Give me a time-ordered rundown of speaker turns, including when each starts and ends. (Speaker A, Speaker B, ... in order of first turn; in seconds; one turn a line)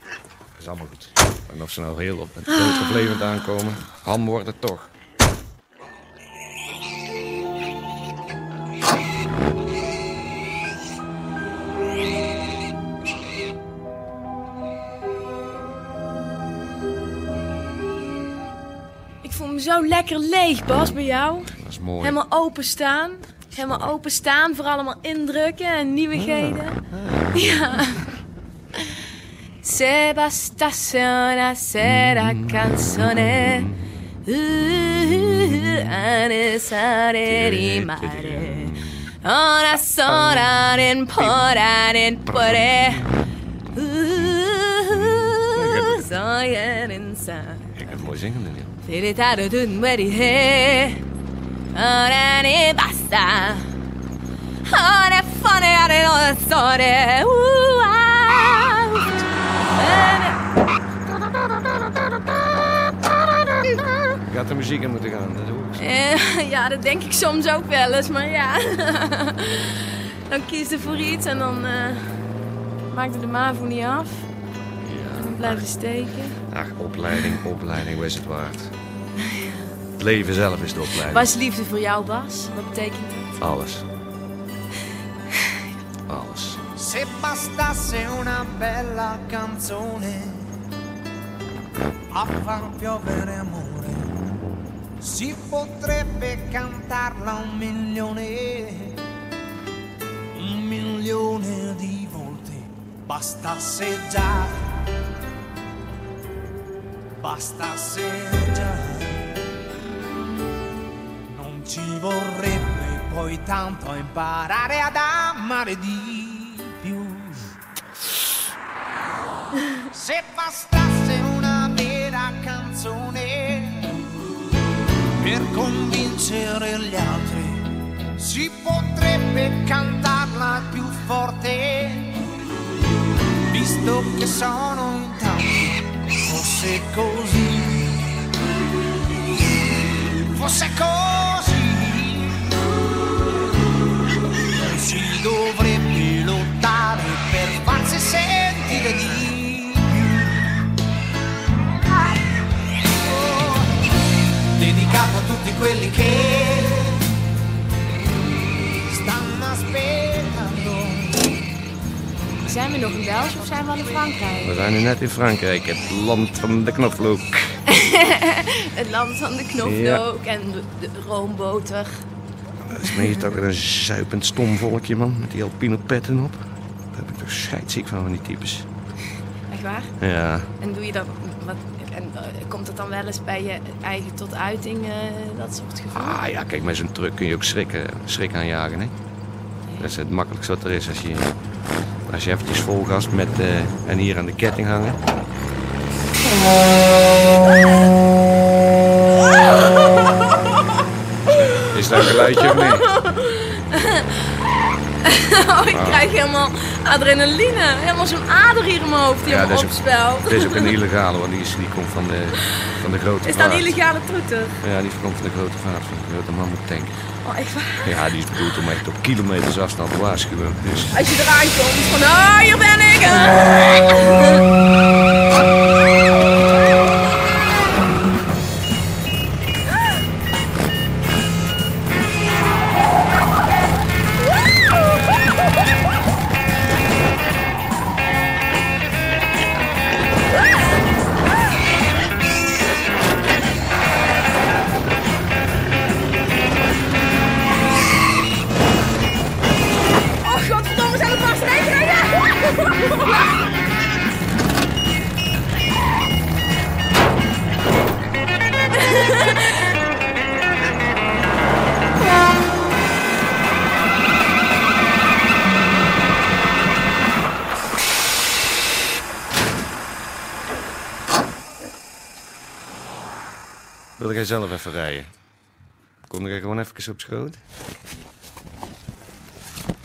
Speaker A: 0.6-4.9
Speaker B: 2.5-3.2
Speaker B: 19.2-26.8
Speaker A: 21.6-22.2
Speaker A: 26.1-27.9
Speaker B: 27.3-28.1
Speaker B: 29.6-33.7
Speaker A: 31.8-33.7
Speaker B: 34.2-43.1
Speaker A: 37.2-39.1
Speaker A: 40.0-41.5
Speaker A: 42.2-43.1
Speaker B: 43.7-48.0
Speaker A: 44.9-46.1
Speaker A: 47.8-48.7
Speaker B: 48.8-51.0
Speaker B: 51.7-53.7
Speaker B: 54.6-59.2
Speaker B: 59.7-60.5
Speaker A: 61.2-62.2
Speaker A: 64.2-65.9
Speaker B: 65.8-72.3
Speaker B: 72.9-74.3
Speaker A: 74.8-75.7
Speaker B: 75.2-76.4
Speaker A: 76.5-78.7
Speaker B: 77.1-77.4
Speaker A: 80.0-81.3
Speaker B: 80.9-83.4
Speaker A: 83.4-83.8
Speaker A: 86.1-86.6
Speaker C: 86.8-90.5
Speaker C: 92.1-94.2
Speaker C: 95.0-99.0
Speaker C: 100.3-104.7
Speaker C: 107.2-109.3
Speaker C: 111.3-117.5
Speaker C: 119.9-124.0
Speaker C: 125.2-132.2
Speaker C: 133.5-138.1
Speaker C: 139.9-142.6
Speaker C: 144.5-150.6
Speaker C: 152.8-153.8
Speaker C: 154.5-157.1
Speaker C: 158.7-161.2
Speaker B: 162.4-164.5
Speaker A: 164.4-167.5
Speaker B: 167.7-172.0
Speaker A: 169.6-170.0
Speaker A: 172.7-176.4
Speaker B: 172.8-173.2
Speaker A: 176.9-178.7
Speaker B: 179.5-179.9
Speaker A: 180.0-180.5
Speaker B: 180.6-186.2
Speaker A: 185.9-188.9
Speaker A: 189.8-191.3
Speaker A: 192.1-195.0
Speaker B: 199.2-200.5
Speaker B: 201.3-204.3
Speaker A: 201.3-202.9
Speaker B: 205.0-210.8
Speaker A: 205.7-206.1
Speaker A: 209.2-213.8
Speaker B: 213.2-214.6
Speaker A: 214.6-217.0
Speaker B: 217.2-218.4
Speaker A: 217.8-221.0
Speaker B: 220.9-224.4
Speaker B: 250.2-253.2
Speaker B: 258.7-259.6
Speaker A: 274.0-275.1
Speaker A: 276.1-277.4